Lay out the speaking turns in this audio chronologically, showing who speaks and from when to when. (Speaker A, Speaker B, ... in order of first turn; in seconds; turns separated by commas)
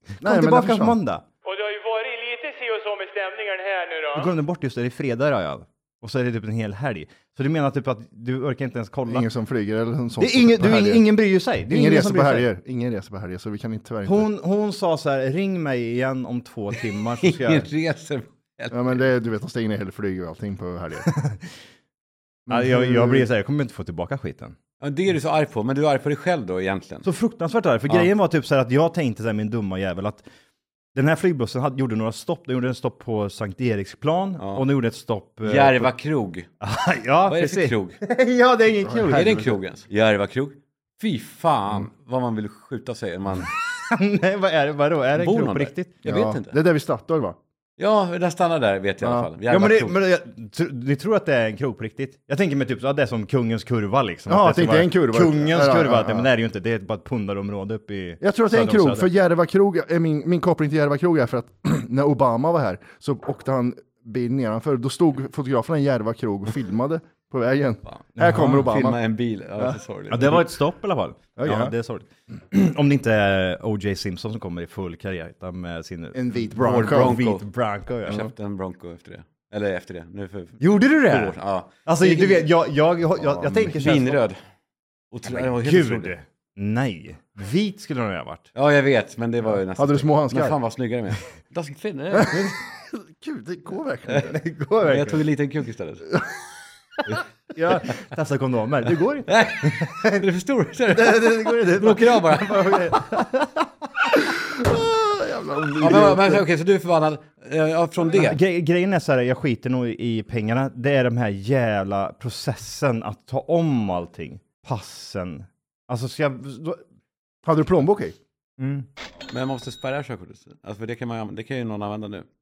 Speaker A: 0.2-1.0, Speaker B: 0.2-1.2, Speaker C: 1.5-4.3, Speaker B: 4.1-9.3, Speaker A: 9.1-11.0, Speaker B: 10.2-12.5, Speaker A: 11.7-14.3, Speaker B: 14.1-17.7, Speaker D: 17.2-19.0, Speaker A: 18.7-21.1, Speaker B: 21.1-21.5, Speaker A: 22.5-23.3, Speaker B: 22.5-24.6, Speaker D: 24.8-27.1, Speaker B: 27.0-30.2, Speaker B: 30.9-35.9, Speaker D: 34.4-34.6, Speaker D: 35.4-36.5, Speaker B: 36.6-39.6, Speaker D: 37.3-38.0, Speaker A: 38.9-39.4, Speaker D: 39.1-43.5, Speaker B: 43.6-46.0, Speaker D: 45.2-46.6, Speaker A: 46.0-47.4, Speaker D: 47.8-50.0, Speaker A: 49.0-49.3, Speaker B: 49.5-59.1, Speaker A: 54.3-56.3, Speaker A: 58.2-69.0, Speaker D: 67.9-70.5, Speaker B: 68.2-68.7, Speaker B: 70.1-78.2, Speaker A: 71.4-71.7, Speaker A: 76.2-77.2, Speaker D: 76.6-77.5, Speaker D: 78.0-82.5, Speaker B: 80.6-84.2, Speaker A: 83.4-83.7, Speaker D: 83.6-84.4, Speaker D: 85.1-86.1, Speaker B: 85.2-88.5, Speaker D: 88.5-92.5, Speaker A: 89.8-90.6, Speaker A: 92.2-94.4, Speaker B: 94.2-95.2, Speaker D: 94.8-96.1, Speaker B: 97.1-100.2, Speaker D: 99.3-102.9, Speaker B: 100.9-103.7, Speaker A: 104.6-106.4, Speaker D: 105.8-108.4, Speaker B: 108.1-116.8, Speaker A: 117.4-118.2, Speaker B: 118.6-118.9, Speaker D: 119.3-122.3